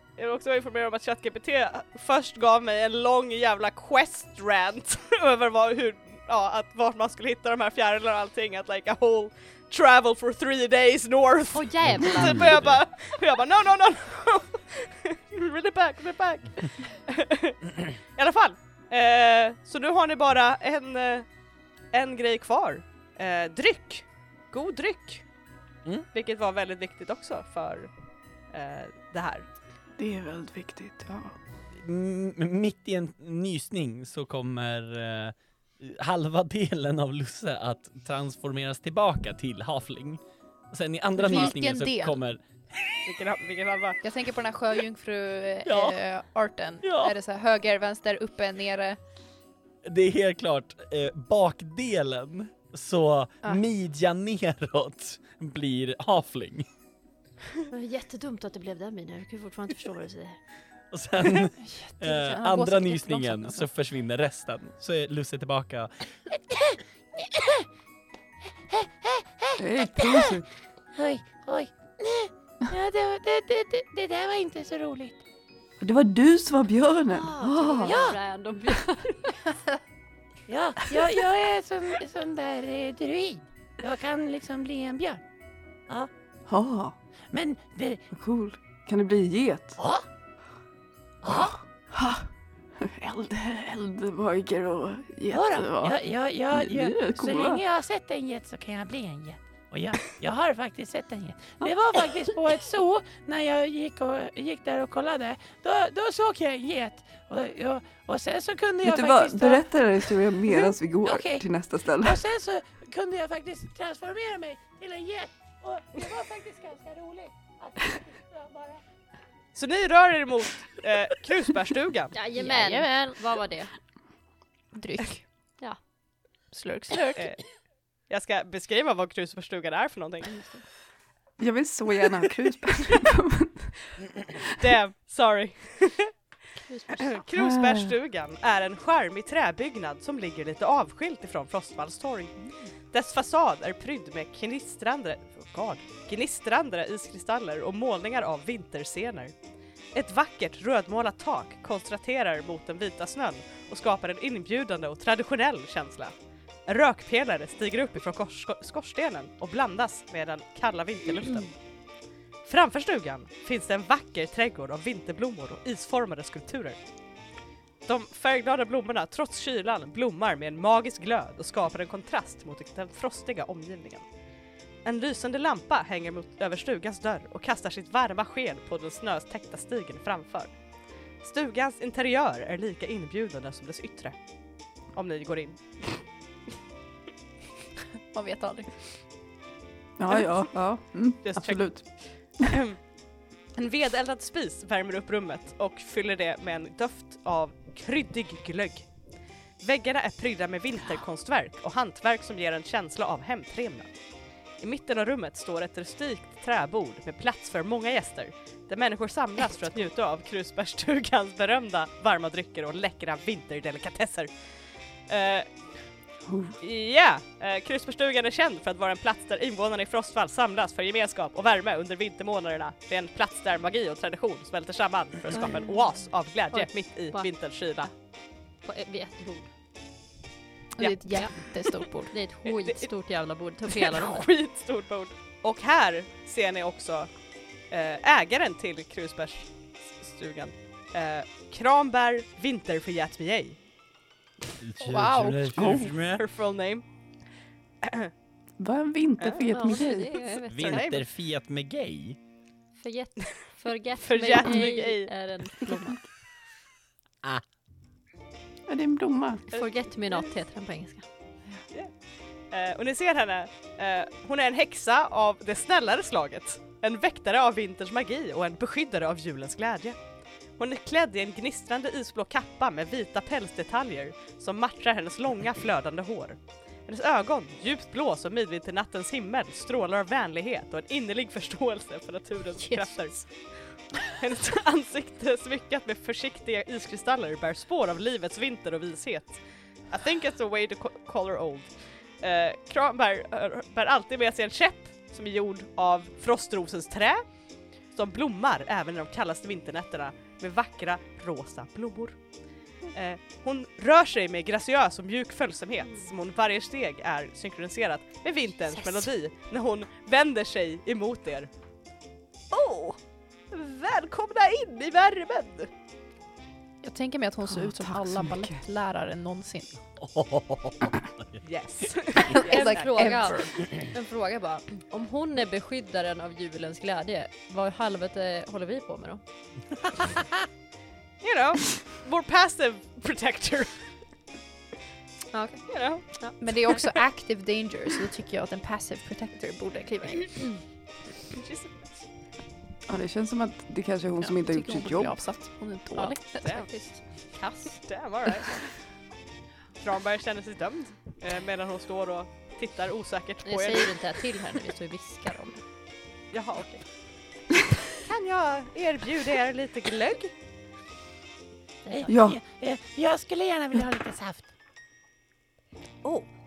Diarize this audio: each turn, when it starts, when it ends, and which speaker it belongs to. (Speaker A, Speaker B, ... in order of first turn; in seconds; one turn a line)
Speaker A: 0.2-21.3
Speaker B: 11.5-12.7
Speaker C: 12.4-12.7
Speaker A: 21.9-25.2
Speaker A: 26.1-27.9
Speaker A: 28.5-29.5
Speaker D: 30.0-31.4
Speaker C: 31.8-40.2
Speaker C: 40.7-42.4
Speaker E: 41.2-42.2
Speaker A: 43.0-44.0
Speaker E: 44.0-49.0
Speaker C: 45.7-46.0
Speaker C: 49.9-56.7
Speaker B: 57.7-60.4
Speaker C: 60.9-65.9
Speaker E: 61.6-63.6
Speaker F: 66.3-67.7
Speaker F: 68.6-70.4
Speaker D: 69.6-70.5
Speaker F: 70.9-75.2
Speaker D: 75.8-78.0
Speaker B: 77.1-79.3
Speaker F: 77.9-78.2
Speaker F: 80.5-85.2
Speaker D: 86.5-87.0
Speaker F: 87.3-88.0
Speaker D: 88.1-89.8
Speaker F: 89.8-90.0
Speaker F: 91.2-91.5
Speaker D: 91.3-92.3
Speaker D: 92.8-96.0
Speaker F: 95.3-109.7
Speaker D: 96.5-97.6
Speaker D: 108.8-112.2
Speaker F: 110.5-111.5
Speaker F: 112.0-118.8
Speaker A: 119.5-122.2
Speaker B: 122.1-123.7
Speaker E: 122.4-123.2
Speaker E: 124.7-125.2
Speaker E: 126.5-127.3
Speaker A: 128.1-130.6
Speaker D: 131.4-133.7
Speaker A: 134.6-136.1
Speaker B: 136.6-137.2
Speaker A: 136.9-142.4
Speaker D: 137.3-137.9
Speaker A: 142.9-149.3
Speaker A: 149.9-156.1
Speaker A: 156.7-161.5
Speaker A: 162.4-166.8
Speaker A: 167.8-174.1
Speaker A: 174.8-180.5
Speaker A: 181.2-184.2
Speaker A: 184.9-186.0
Speaker E: 188.1-188.8
Speaker D: 190.0-191.9
Speaker A: 191.2-192.8
Speaker A: 193.6-198.9
Speaker A: 199.6-203.9
Speaker A: 204.6-214.3
Speaker A: 215.1-215.5
Speaker D: 216.3-216.6
Speaker A: 216.6-227.9
Speaker B: 225.3-225.8
Speaker B: 226.5-227.3
Speaker B: 228.7-229.5
Speaker E: 230.8-232.2
Speaker B: 230.8-231.4
Speaker B: 232.1-234.3
Speaker A: 232.5-232.9
Speaker A: 233.7-237.1
Speaker A: 237.7-243.6
Speaker C: 244.6-246.2
Speaker E: 244.8-245.5
Speaker D: 245.6-245.9
Speaker A: 245.7-246.8
Speaker A: 247.8-248.1
Speaker D: 248.6-250.3
Speaker B: 249.5-250.9
Speaker C: 250.5-252.2
Speaker A: 250.5-251.0
Speaker B: 252.8-256.0
Speaker A: 254.0-255.1
Speaker D: 258.7-259.4
Speaker B: 259.5-261.1
Speaker A: 259.6-260.2
Speaker A: 262.5-270.0
Speaker A: 270.6-283.2
Speaker B: 282.6-283.2
Speaker A: 284.1-297.2
Speaker A: 297.9-302.2
Speaker A: 302.9-311.5
Speaker A: 312.5-313.0
Speaker A: 313.5-315.7
Speaker E: 316.8-319.8
Speaker D: 317.5-318.6
Speaker C: 320.0-321.4
Speaker A: 321.4-323.3
Speaker E: 322.2-323.5
Speaker B: 322.4-329.2
Speaker A: 331.2-333.8
Speaker B: 335.3-336.4
Speaker A: 335.7-336.1
Speaker E: 336.4-340.5
Speaker A: 341.3-342.0
Speaker D: 342.9-345.2
Speaker E: 344.2-346.5
Speaker B: 345.9-347.8
Speaker A: 346.4-346.7
Speaker A: 347.9-348.7
Speaker A: 349.8-353.9
Speaker B: 353.4-355.6
Speaker A: 356.3-356.8
Speaker A: 358.0-360.3
Speaker B: 361.9-362.1
Speaker F: 361.9-364.5
Speaker D: 362.1-362.4